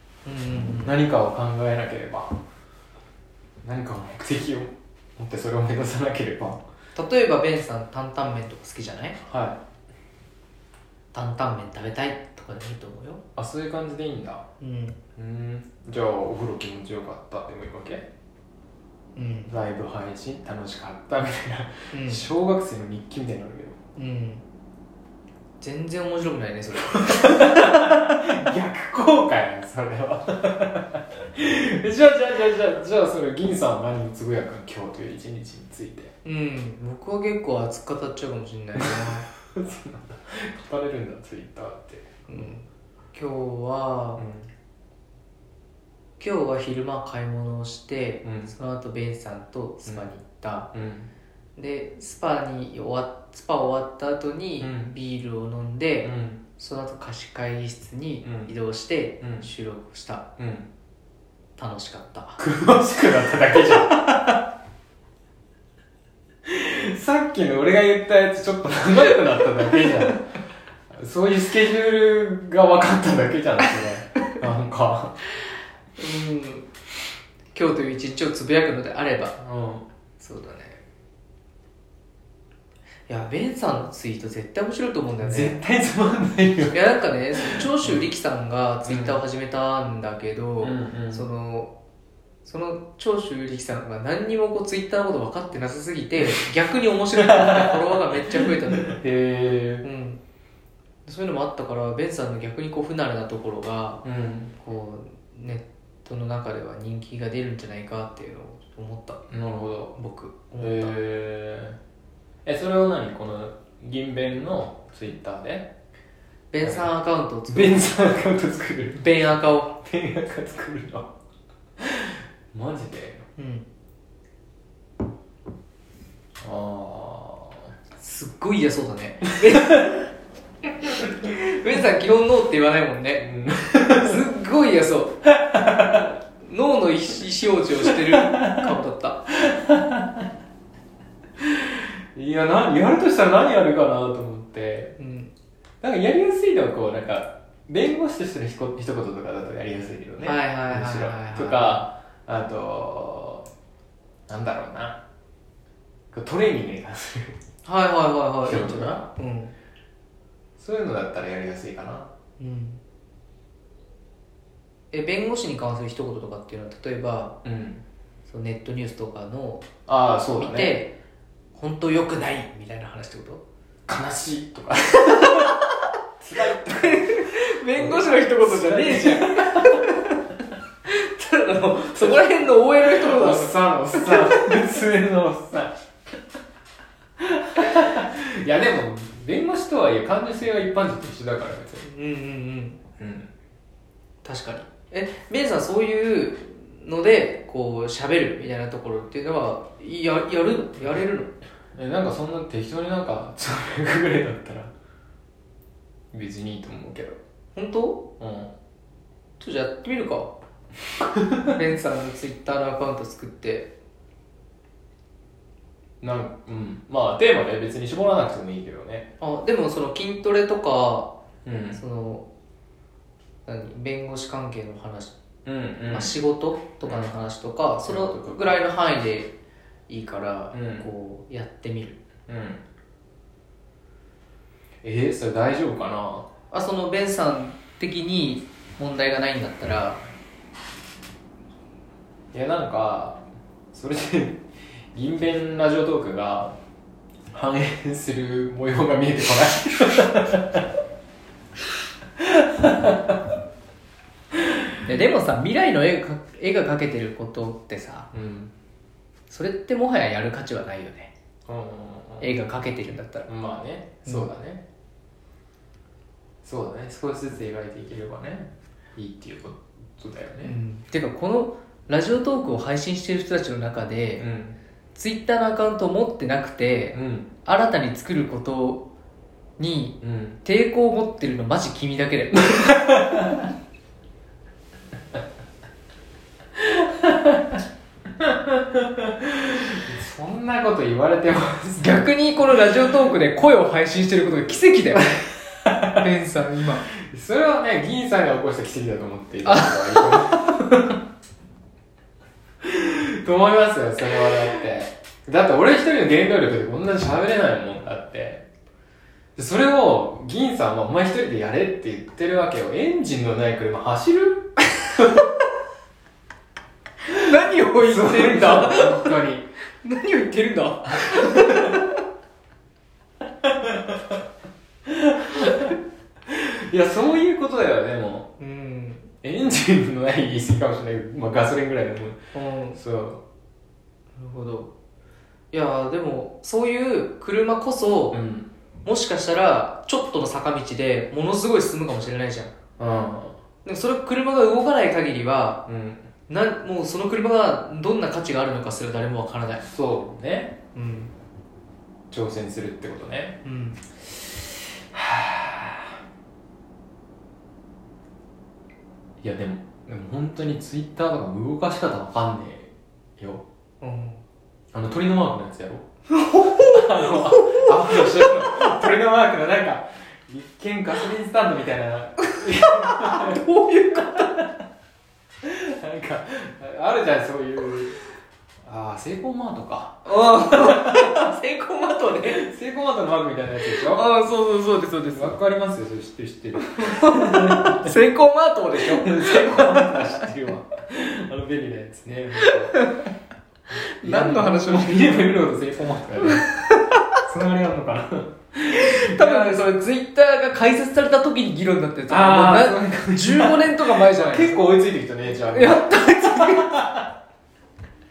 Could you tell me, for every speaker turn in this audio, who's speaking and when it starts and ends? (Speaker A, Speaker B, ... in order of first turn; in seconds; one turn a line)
Speaker A: 0.2-1.0
Speaker B: 0.8-2.4
Speaker B: 3.6-6.6
Speaker A: 7.0-9.2
Speaker B: 9.2-9.6
Speaker A: 11.1-13.2
Speaker B: 13.4-14.4
Speaker A: 14.6-15.0
Speaker B: 15.2-18.1
Speaker A: 19.2-19.5
Speaker B: 19.5-23.8
Speaker A: 21.9-22.3
Speaker A: 24.0-24.4
Speaker A: 25.6-27.6
Speaker B: 26.9-36.1
Speaker A: 36.2-39.3
Speaker B: 38.8-42.1
Speaker A: 42.3-44.2
Speaker B: 44.2-44.5
Speaker A: 46.2-50.7
Speaker B: 48.2-48.5
Speaker B: 50.7-51.1
Speaker A: 51.6-60.2
Speaker B: 54.6-55.0
Speaker B: 56.0-56.4
Speaker B: 58.2-58.5
Speaker B: 59.2-59.5
Speaker B: 60.4-60.7
Speaker A: 61.6-62.4
Speaker B: 62.4-64.2
Speaker B: 66.5-75.2
Speaker A: 76.0-76.7
Speaker A: 77.5-79.3
Speaker B: 79.4-79.8
Speaker A: 80.2-80.8
Speaker A: 83.1-85.6
Speaker B: 85.2-86.8
Speaker A: 86.7-91.7
Speaker B: 87.4-88.1
Speaker B: 88.9-89.2
Speaker B: 90.6-91.3
Speaker A: 92.5-99.0
Speaker B: 97.2-98.2
Speaker B: 98.8-99.9
Speaker A: 99.8-100.2
Speaker A: 101.0-104.0
Speaker B: 104.0-104.5
Speaker A: 104.6-109.2
Speaker B: 109.3-110.0
Speaker A: 110.0-111.0
Speaker B: 110.6-111.8
Speaker B: 112.5-115.7
Speaker A: 116.5-117.8
Speaker B: 116.6-116.9
Speaker B: 117.5-119.2
Speaker A: 119.0-119.8
Speaker B: 119.8-121.1
Speaker B: 121.8-123.3
Speaker A: 123.4-123.7
Speaker B: 126.4-127.7
Speaker A: 128.0-130.1
Speaker A: 131.2-133.2
Speaker B: 133.2-134.2
Speaker A: 133.9-135.2
Speaker B: 135.4-136.0
Speaker A: 135.8-139.3
Speaker B: 138.2-138.7
Speaker B: 139.4-140.2
Speaker B: 141.5-144.9
Speaker A: 145.0-145.3
Speaker B: 145.8-153.5
Speaker A: 150.2-151.8
Speaker B: 154.3-155.0
Speaker B: 156.1-157.4
Speaker A: 157.6-159.5
Speaker B: 158.4-159.1
Speaker B: 160.6-162.1
Speaker A: 162.4-162.8
Speaker A: 164.9-167.4
Speaker B: 167.4-167.8
Speaker A: 168.3-169.7
Speaker B: 169.9-170.8
Speaker A: 170.3-170.9
Speaker A: 171.6-173.4
Speaker B: 173.9-175.7
Speaker B: 176.2-179.9
Speaker A: 176.3-180.2
Speaker A: 180.8-184.8
Speaker B: 182.8-185.8
Speaker B: 187.2-191.9
Speaker A: 191.8-192.8
Speaker B: 193.0-193.3
Speaker A: 194.2-201.3
Speaker B: 201.7-204.7
Speaker B: 206.1-207.2
Speaker A: 207.6-208.0
Speaker B: 208.2-208.5
Speaker A: 209.4-210.3
Speaker A: 211.5-213.7
Speaker B: 216.0-219.1
Speaker A: 219.2-221.1
Speaker B: 221.4-221.8
Speaker A: 221.8-222.3
Speaker A: 223.5-225.1
Speaker B: 225.4-226.2
Speaker A: 225.9-229.3
Speaker B: 226.8-227.2
Speaker B: 227.8-228.6
Speaker A: 229.9-232.0
Speaker B: 230.5-230.9
Speaker B: 232.3-232.6
Speaker B: 234.8-236.3
Speaker A: 236.5-240.0
Speaker B: 242.3-243.2
Speaker B: 243.7-244.4
Speaker B: 244.9-246.6
Speaker B: 247.3-250.7
Speaker B: 252.2-253.2
Speaker A: 254.9-258.1
Speaker B: 258.1-258.5
Speaker A: 259.3-261.1
Speaker B: 261.5-262.4
Speaker A: 262.2-263.3
Speaker B: 263.2-264.6
Speaker B: 266.4-270.6
Speaker A: 270.4-274.3
Speaker B: 274.2-274.6
Speaker A: 274.9-278.9
Speaker B: 276.9-277.3
Speaker A: 279.6-282.8
Speaker B: 280.0-280.4
Speaker B: 282.8-283.4
Speaker B: 286.6-287.6
Speaker B: 288.2-292.1
Speaker A: 291.8-295.1
Speaker A: 295.9-296.9
Speaker B: 297.1-300.7
Speaker A: 299.4-300.6
Speaker B: 302.6-308.4
Speaker B: 309.4-315.2
Speaker A: 317.1-319.2
Speaker B: 317.8-319.5
Speaker A: 319.8-322.0
Speaker B: 323.4-324.0
Speaker B: 324.9-325.7
Speaker B: 326.3-328.3
Speaker A: 328.4-329.1
Speaker B: 329.2-333.2
Speaker A: 332.3-332.8
Speaker A: 334.2-334.7
Speaker A: 335.5-338.2
Speaker B: 338.1-338.5
Speaker A: 338.9-342.5
Speaker B: 342.8-343.4
Speaker A: 343.6-345.6
Speaker B: 345.7-346.1
Speaker A: 346.3-349.6
Speaker B: 349.6-350.6
Speaker A: 350.8-351.1
Speaker B: 352.1-353.4
Speaker A: 353.4-353.8
Speaker B: 354.0-355.9
Speaker B: 359.2-363.4
Speaker A: 363.8-364.2
Speaker B: 364.7-365.9
Speaker A: 366.1-368.4
Speaker B: 366.5-373.5
Speaker A: 372.6-374.4
Speaker B: 374.0-374.4
Speaker B: 375.4-378.0
Speaker B: 378.6-381.3
Speaker A: 380.1-382.4
Speaker B: 382.2-384.1
Speaker A: 383.6-385.4
Speaker B: 385.0-388.0
Speaker A: 386.6-390.3
Speaker B: 388.7-392.8
Speaker A: 392.4-393.1
Speaker A: 393.7-395.3
Speaker B: 394.0-396.5
Speaker A: 396.2-397.1
Speaker B: 397.2-399.7
Speaker A: 398.7-404.7
Speaker B: 402.1-407.1
Speaker A: 405.3-406.8